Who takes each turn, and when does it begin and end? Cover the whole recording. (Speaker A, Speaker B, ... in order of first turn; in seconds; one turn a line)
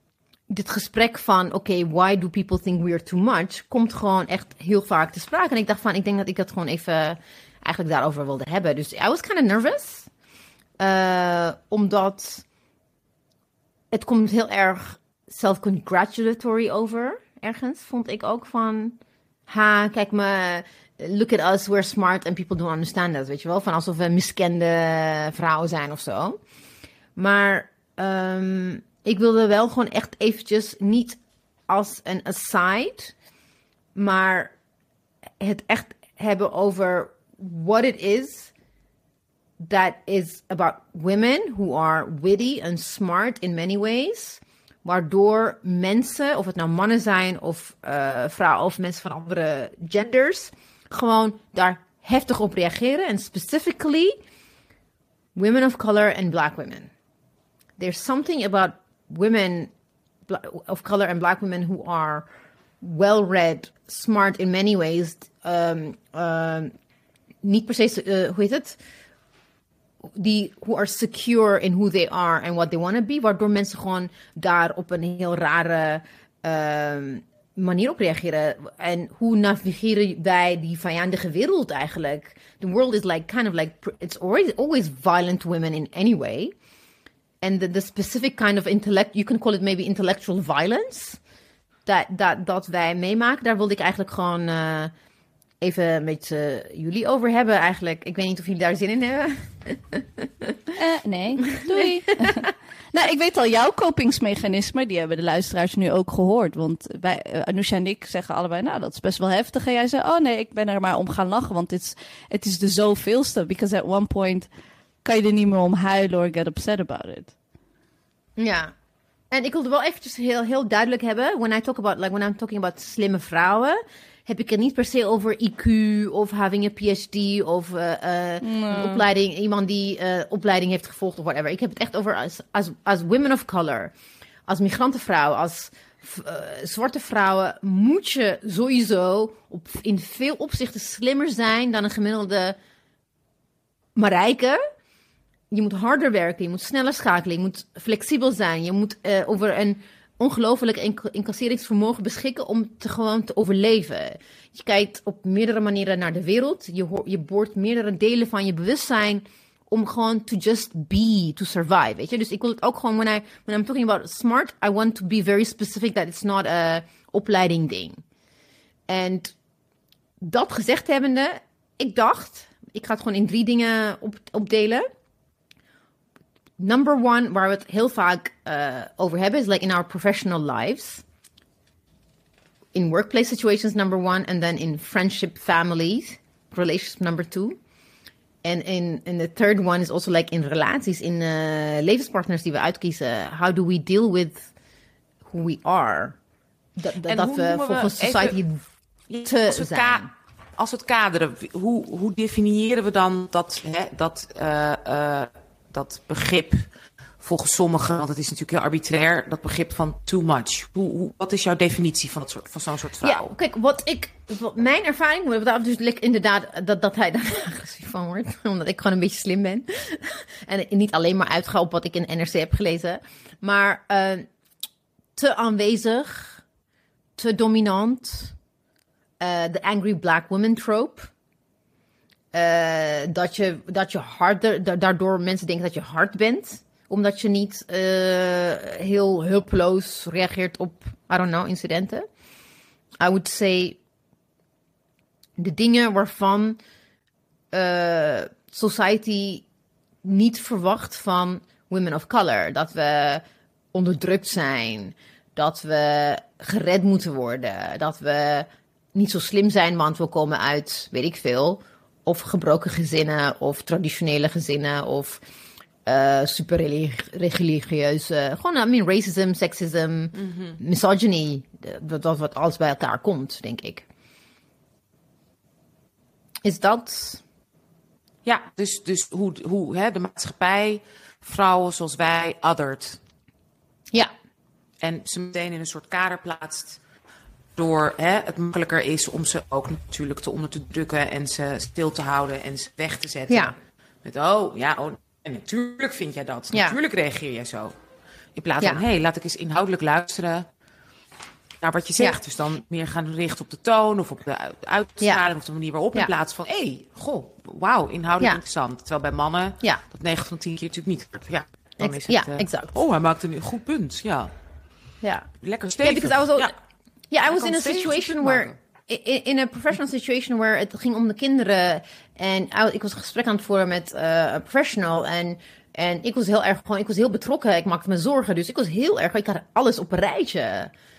Speaker A: 0.5-10.1
Speaker A: 10.8-12.4
Speaker A: 13.9-26.4
Speaker A: 27.1-33.1
Speaker A: 33.9-34.5
Speaker A: 35.4-38.5
Speaker A: 39.6-54.1
Speaker A: 55.3-56.9
Speaker A: 57.8-59.7
Speaker A: 60.3-62.3
Speaker A: 62.8-66.7
Speaker A: 67.4-68.8
Speaker A: 70.0-86.5
Speaker A: 87.4-91.2
Speaker A: 91.8-94.9
Speaker A: 95.6-100.7
Speaker B: 100.8-114.5
Speaker A: 101.5-102.5
Speaker B: 115.0-117.3
Speaker A: 118.4-118.7
Speaker A: 119.3-133.9
Speaker B: 128.4-129.0
Speaker A: 134.5-142.6
Speaker A: 143.9-144.6
Speaker A: 145.5-168.0
Speaker A: 168.9-169.3
Speaker A: 170.2-174.8
Speaker A: 176.6-181.0
Speaker A: 182.7-187.6
Speaker A: 188.4-194.5
Speaker A: 195.2-196.2
Speaker A: 196.8-198.6
Speaker C: 197.1-198.3
Speaker C: 199.1-200.0
Speaker A: 199.2-200.1
Speaker C: 200.6-206.6
Speaker C: 207.2-213.3
Speaker A: 213.0-224.2
Speaker A: 225.2-226.4
Speaker A: 227.2-228.3
Speaker A: 229.2-231.1
Speaker A: 232.3-242.0
Speaker A: 243.0-243.8
Speaker A: 245.4-246.6
Speaker A: 247.5-249.4
Speaker A: 250.0-265.2
Speaker A: 265.9-273.8
Speaker C: 270.2-270.6
Speaker A: 276.4-277.2
Speaker C: 278.2-283.0
Speaker C: 284.8-286.8
Speaker C: 287.6-297.7
Speaker A: 293.3-293.5
Speaker A: 296.5-296.8
Speaker C: 298.4-300.5
Speaker C: 301.6-314.3
Speaker A: 311.8-312.8
Speaker A: 315.0-315.3
Speaker C: 315.4-316.5
Speaker A: 315.8-316.5
Speaker A: 317.1-330.7
Speaker C: 317.3-318.5